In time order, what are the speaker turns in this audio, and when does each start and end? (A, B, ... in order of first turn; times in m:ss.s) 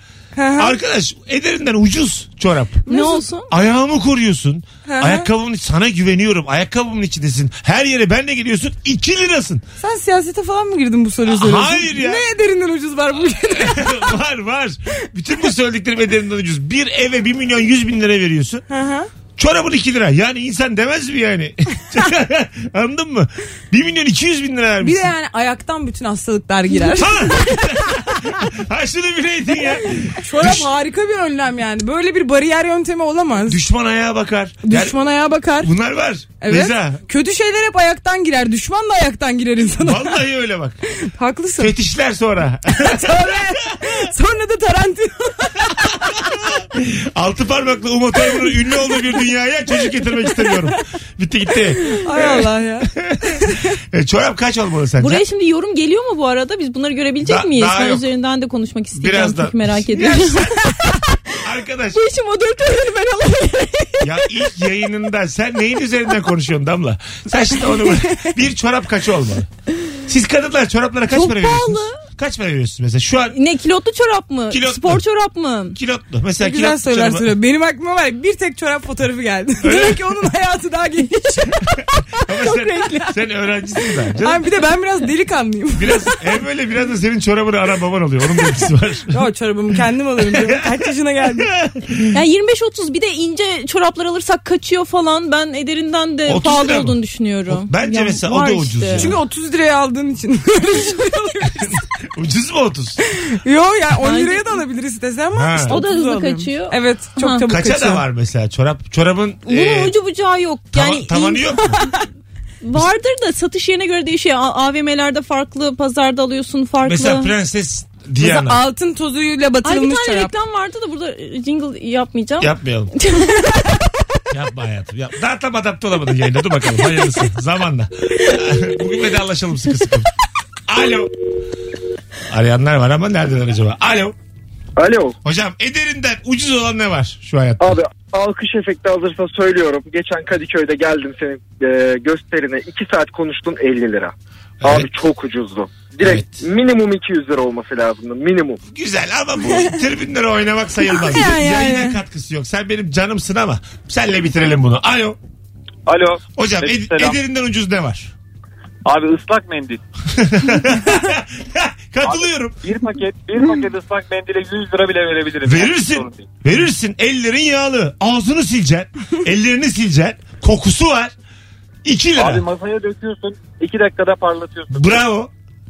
0:00.3-0:00.7 A
0:00.6-0:02.9 B
0:02.9-0:03.2 A
0:02.9-0:03.5 C
0:03.5-0:09.6 B
0:04.8-0:05.3 A
0:09.8-0:14.1 A
0:11.3-0:12.3 B
0:13.6-0:18.6 B
0:18.7-0:19.1 A
0:19.4-0:25.1 B
0:24.8-0:27.1 A
0:26.9-0:30.7 B
0:30.2-0:33.6 A
0:33.5-0:35.0 B
0:34.6-0:35.7 A
0:35.6-0:37.0 B
0:36.4-0:40.2 A
0:39.8-0:40.8 B
0:41.0-0:41.7 A
0:41.6-0:43.9 B
0:42.8-0:46.0 A
0:46.0-0:55.2 B
0:52.0-0:53.6 A
0:55.0-1:01.3 C
0:57.2-0:58.0 B
0:58.9-1:00.5 B
1:01.4-1:02.0 B
1:01.9-1:04.1 C
1:04.0-1:09.5 B
1:10.0-1:13.4 B
1:11.1-1:12.0 C
1:13.3-1:15.8 C
1:14.5-1:15.0 B
1:15.7-1:17.3 B
1:16.4-1:21.9 A
1:19.6-1:20.0 B
1:22.2-1:24.4 B
1:22.4-1:23.1 C
1:24.2-1:26.1 A
1:25.8-1:29.1 B
1:29.1-1:31.5 A
1:30.3-1:30.7 B
1:31.4-1:32.2 B
1:32.1-1:39.1 C
1:36.3-1:37.0 B
1:37.5-1:39.2 B
1:38.9-1:41.8 A
1:41.6-1:43.0 B
1:43.4-1:48.0 A
1:44.0-1:44.6 C
1:45.4-1:45.8 B
1:45.7-1:47.4 C
1:47.5-1:49.9 B
1:49.5-1:51.9 C
1:50.7-1:51.8 B
1:52.6-1:57.3 C
1:56.8-1:58.6 B
1:58.2-2:00.3 A
1:59.6-2:03.6 C
2:02.4-2:02.9 B
2:04.3-2:10.1 B
2:10.7-2:11.1 B
2:12.3-2:14.1 B
2:14.8-2:15.2 D
2:15.2-2:17.8 B
2:17.6-2:28.6 D
2:24.6-2:24.9 B
2:26.0-2:26.4 B
2:28.7-2:35.2 B
2:30.9-2:32.0 A
2:35.8-2:37.2 E
2:36.4-2:38.1 B
2:38.8-2:39.8 E
2:40.1-2:42.6 B
2:42.0-2:46.3 E
2:45.4-2:51.1 B
2:51.8-2:52.4 B
2:52.2-2:55.0 E
2:54.7-2:55.3 B